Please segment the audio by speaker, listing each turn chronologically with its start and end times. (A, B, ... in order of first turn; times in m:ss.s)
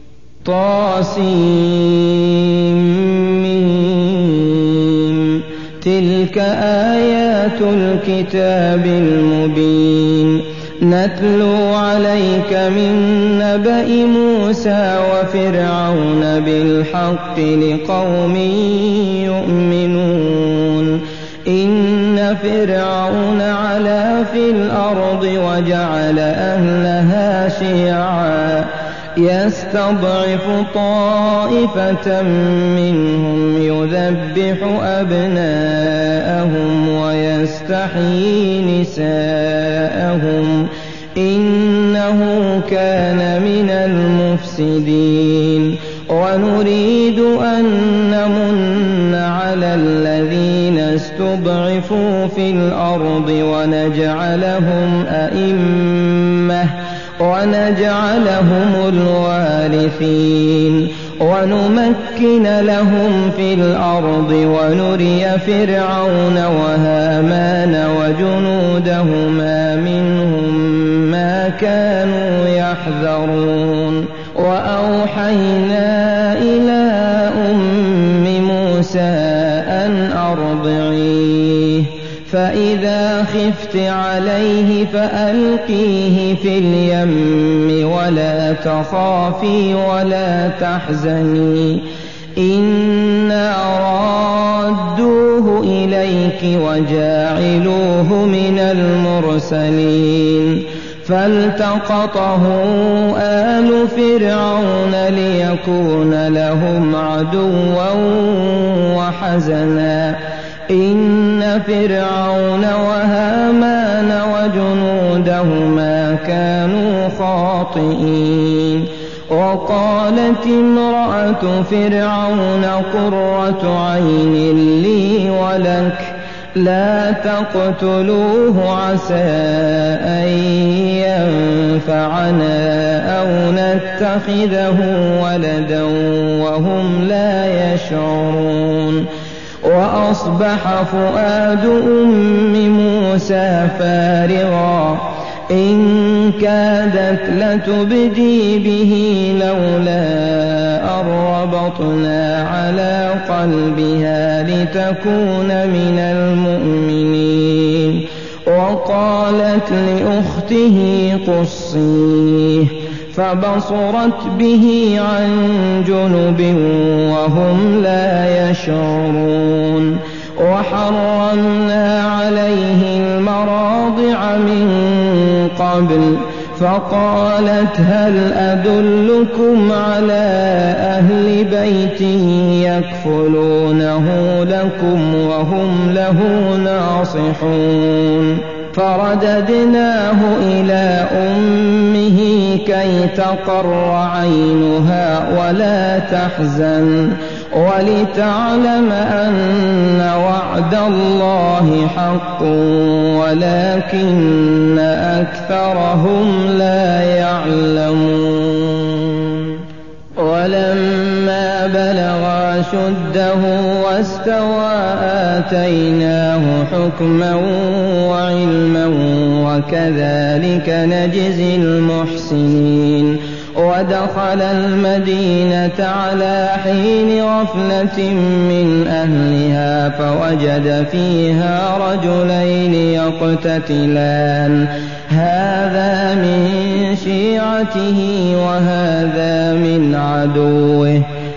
0:00.4-1:31.8 A
1:32.4-1:50.2 A
1:50.7-2:19.1 A
2:19.6-3:29.6 A
3:30.2-4:01.1 A